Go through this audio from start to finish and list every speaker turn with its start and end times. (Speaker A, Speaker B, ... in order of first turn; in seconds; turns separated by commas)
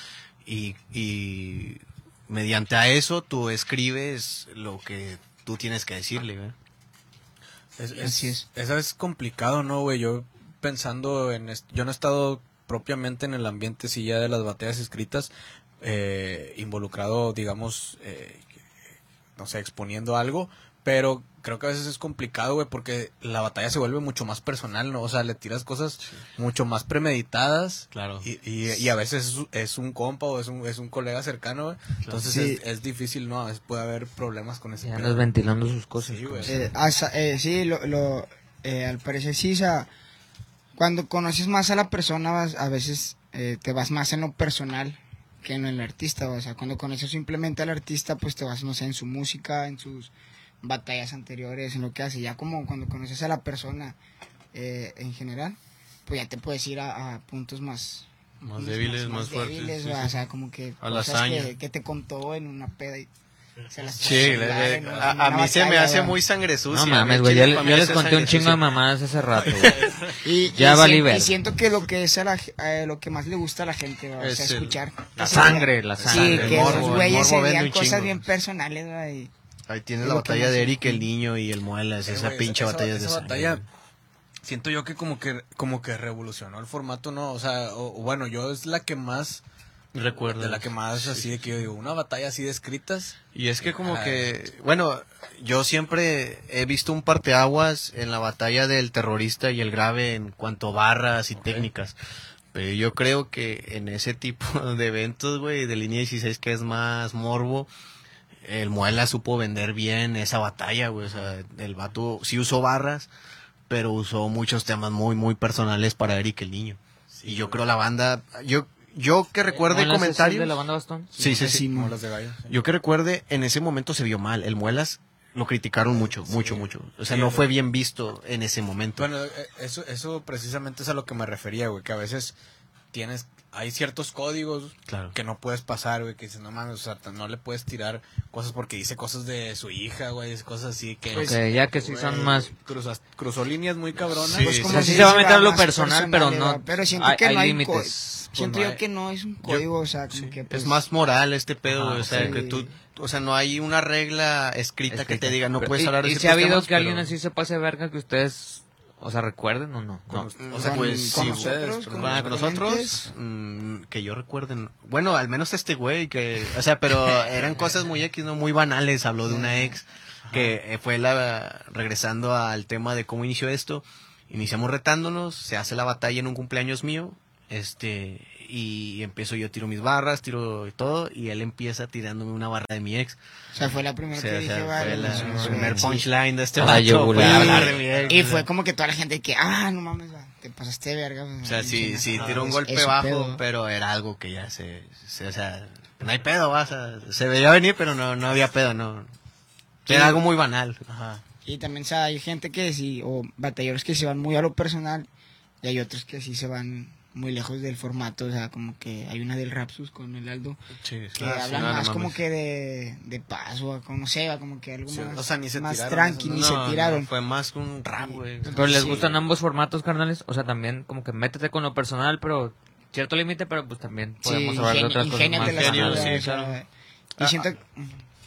Speaker A: 0.4-6.5, Speaker B: 7.8-15.3, Speaker C: 8.0-8.4, Speaker B: 15.8-18.4, Speaker B: 19.4-35.3, Speaker A: 27.9-28.2, Speaker C: 32.2-32.6, Speaker D: 34.8-36.6, Speaker B: 36.0-36.7, Speaker C: 36.5-39.9, Speaker C: 40.7-54.0, Speaker C: 54.5-63.1, Speaker A: 58.4-60.2, Speaker A: 60.8-61.5, Speaker C: 63.7-66.2, Speaker B: 64.0-65.1, Speaker A: 64.0-68.6, Speaker D: 66.7-69.8, Speaker A: 69.6-69.9, Speaker B: 69.6-70.0, Speaker C: 70.2-79.3, Speaker D: 70.5-71.3, Speaker A: 74.2-78.2, Speaker D: 75.2-77.1, Speaker B: 76.2-76.7, Speaker A: 79.7-83.6, Speaker C: 80.0-81.0, Speaker B: 82.0-83.6, Speaker B: 84.4-89.4, Speaker A: 89.9-91.4, Speaker B: 90.3-94.3, Speaker A: 93.3-101.9, Speaker B: 101.3-101.7, Speaker A: 102.5-107.7, Speaker A: 108.4-113.1, Speaker A: 113.7-120.6, Speaker B: 117.1-117.6, Speaker D: 119.5-121.1, Speaker A: 121.2-121.7, Speaker B: 121.2-122.5, Speaker C: 121.2-121.9, Speaker A: 122.5-129.1, Speaker B: 125.9-127.5, Speaker B: 129.0-132.3, Speaker B: 132.9-145.1, Speaker A: 134.9-135.1, Speaker D: 141.1-142.5, Speaker A: 144.3-144.9, Speaker C: 144.3-150.8, Speaker D: 144.6-148.2, Speaker B: 148.3-148.8, Speaker A: 150.1-157.1, Speaker D: 151.7-152.4, Speaker C: 152.1-152.7, Speaker D: 154.9-160.3, Speaker B: 160.1-162.3, Speaker A: 160.4-183.2, Speaker C: 160.6-163.0, Speaker C: 169.3-169.8, Speaker B: 170.2-170.6, Speaker C: 183.5-186.1, Speaker A: 184.1-188.5, Speaker B: 185.0-185.6, Speaker D: 185.1-185.9, Speaker D: 186.6-187.8, Speaker B: 187.1-188.2, Speaker C: 187.1-193.4, Speaker A: 191.4-199.1, Speaker B: 192.1-192.6, Speaker A: 199.8-200.8, Speaker C: 199.9-200.2, Speaker B: 200.9-201.2, Speaker C: 201.4-205.1, Speaker C: 205.6-210.6, Speaker A: 210.8-212.2, Speaker C: 211.2-217.1, Speaker B: 214.9-216.5, Speaker A: 216.3-219.1, Speaker C: 217.9-219.1, Speaker D: 218.4-226.3, Speaker C: 224.2-227.9, Speaker A: 225.4-226.6, Speaker A: 227.2-227.5